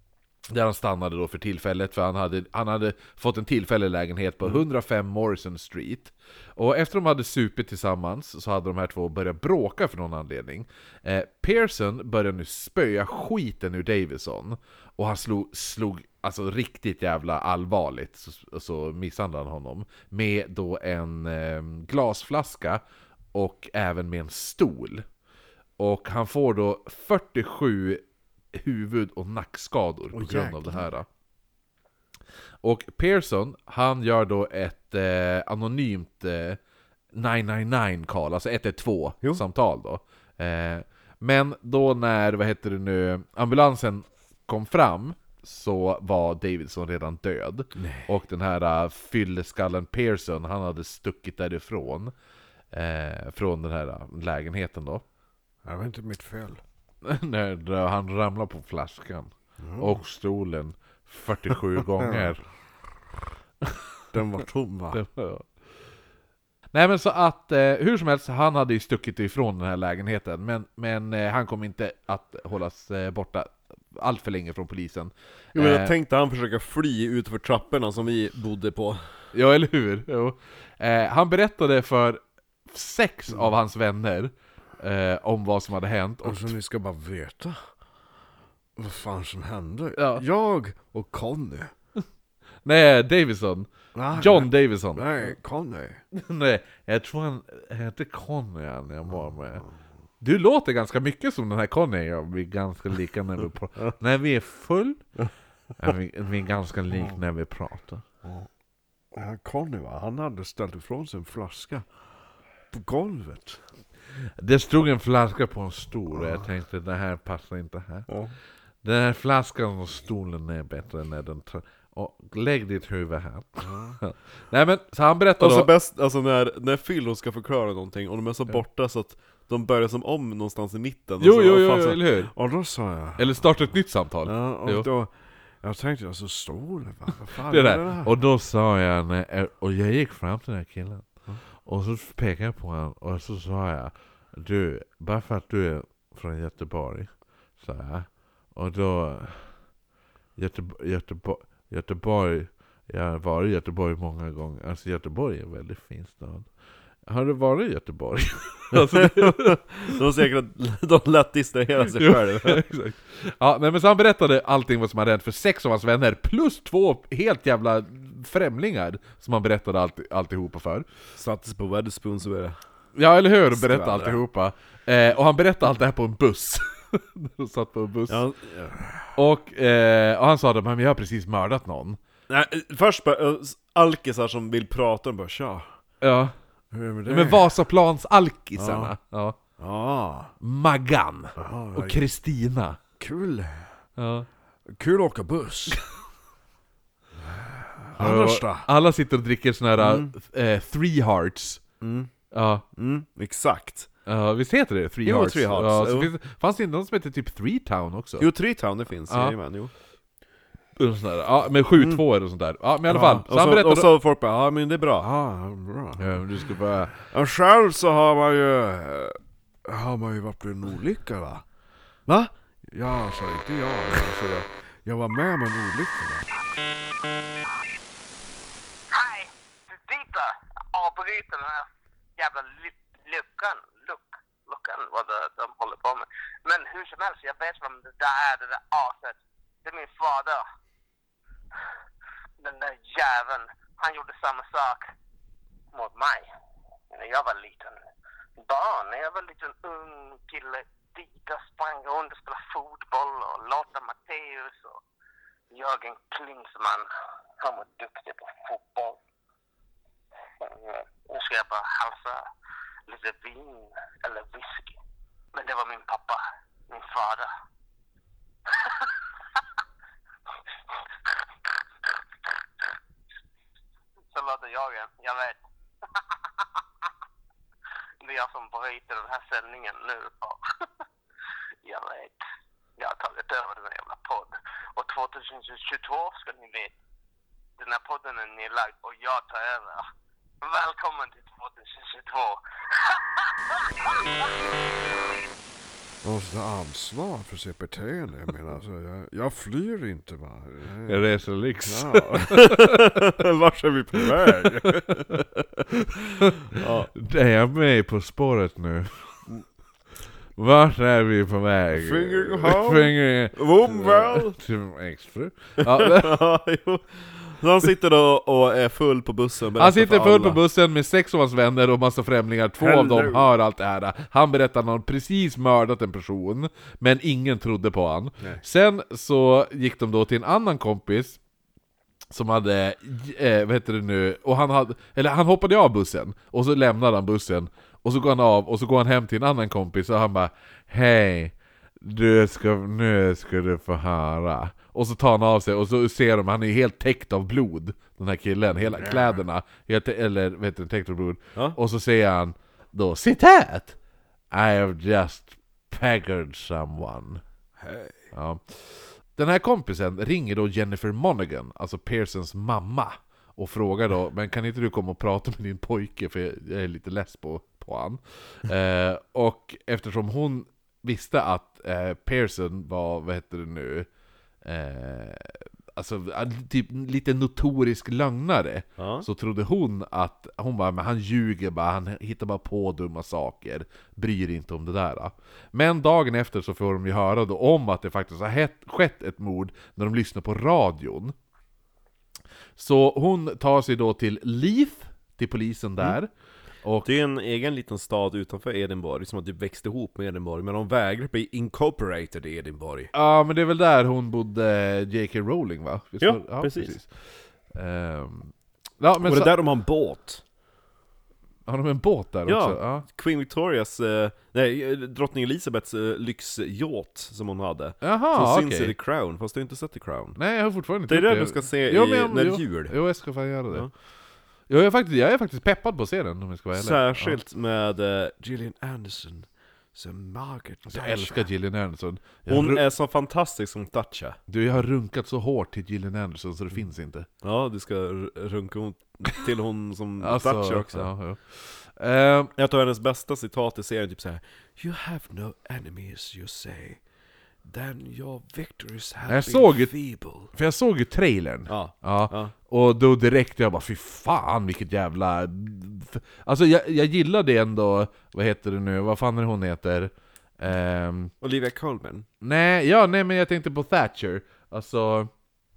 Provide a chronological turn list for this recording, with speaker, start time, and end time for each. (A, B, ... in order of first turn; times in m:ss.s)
0:00.5-0:22.8 A
0:23.3-0:25.0 A
0:25.8-0:28.0 A
0:28.5-0:31.1 A
0:30.1-0:30.8 B
0:32.6-0:36.6 A
0:37.1-0:52.1 A
0:47.8-0:48.1 B
0:52.7-0:55.0 A
0:55.7-0:56.6 B
0:57.0-1:02.4 A
0:59.6-1:00.0 B
1:04.1-1:05.0 B
1:04.9-1:05.5 A
1:06.7-1:15.9 A
1:15.5-1:19.0 B
1:19.3-1:26.5 A
1:26.2-1:27.6 B
1:28.8-1:31.7 B
1:30.0-1:30.2 A
1:32.6-1:35.4 A
1:34.0-1:36.0 B
1:36.1-1:39.7 A
1:40.2-1:45.0 A
1:45.8-1:48.0 A
1:49.1-1:51.9 B
1:52.7-1:53.6 B
1:54.4-1:58.1 A
1:58.1-1:58.3 B
1:58.8-2:05.7 A
2:03.7-2:04.0 B
2:05.4-2:13.3 B
2:11.2-2:12.3 A
2:13.2-2:14.9 A
2:14.2-2:18.1 B
2:17.3-2:21.1 A
2:21.6-2:29.5 A
2:30.4-2:36.5 A
2:37.1-2:39.8 A
2:38.7-2:42.6 B
2:41.8-2:50.9 A
2:51.2-2:52.6 B
2:53.0-2:58.2 A
2:53.5-2:54.2 B
2:58.1-2:59.1 B
2:59.2-3:02.0 A
3:02.3-3:05.7 B
3:06.0-3:06.3 A
3:06.7-3:07.5 B
3:07.1-3:09.4 A
3:08.6-3:08.9 B
3:09.6-3:10.3 B
3:10.4-3:12.8 A
3:11.4-3:12.0 B
3:13.0-3:13.7 B
3:14.0-3:14.3 A
3:14.7-3:15.8 B
3:17.8-3:18.7 B
3:18.0-3:21.6 A
3:19.8-3:20.1 B
3:21.8-3:22.1 B
3:22.3-3:22.6 A
3:22.8-3:23.9 B
3:24.1-3:28.3 A
3:25.0-3:26.1 B
3:28.2-3:29.7 B
3:29.1-3:29.4 A
3:30.8-3:33.9 A
3:31.8-3:32.0 B
3:32.9-3:36.1 B
3:36.0-3:37.0 A
3:37.0-3:41.4 B
3:42.1-3:46.3 B
3:48.9-4:00.4 C
4:02.4-4:04.9 C
4:05.7-4:06.3 C
4:06.9-4:07.8 C
4:08.4-4:14.8 C
4:15.5-4:16.9 C
4:17.4-4:19.0 C
4:20.4-4:22.2 C
4:22.9-4:24.8 C
4:25.3-4:27.3 C
4:28.5-4:29.0 C
4:31.0-4:31.5 C
4:34.1-4:35.4 C
4:36.0-4:36.9 C
4:38.0-4:40.7 C
4:41.6-4:42.2 C
4:42.8-4:46.7 C
4:47.6-4:49.8 C
4:50.4-4:54.4 C
4:56.0-5:01.0 B
5:00.9-5:02.9 A
5:01.7-5:05.7 B
5:04.3-5:04.8 A
5:06.5-5:06.9 B
5:06.9-5:09.3 A
5:10.4-5:16.2 A
5:11.7-5:14.4 B
5:15.6-5:20.4 B
5:19.6-5:31.2 A
5:22.6-5:23.3 B
5:32.1-5:53.8 A
5:54.3-5:57.2 A
5:57.6-5:57.9 B
5:58.1-6:13.9 A
6:14.4-6:31.2 A
6:18.8-6:19.1 B
6:32.6-6:36.1 A
6:36.6-6:36.9 A
6:36.8-6:42.9 B
6:42.9-6:46.9 A
6:46.0-6:46.8 B
6:47.5-6:49.4 A
6:49.0-6:50.2 B
6:51.5-6:52.9 A
6:52.3-7:00.2 B
6:57.8-6:58.7 A
7:00.2-7:03.7 A
7:00.9-7:02.8 B
7:04.5-7:07.2 A
7:06.6-7:11.3 B
7:10.7-7:12.6 A
7:12.2-7:14.2 B
7:14.3-7:17.1 A
7:17.2-7:20.9 B
7:20.0-7:22.3 A
7:22.4-7:26.8 B
7:27.4-7:30.3 B
7:29.1-7:29.8 A
7:30.3-7:41.1 A
7:31.5-7:32.3 B
7:41.2-7:42.1 B
7:42.2-7:45.1 A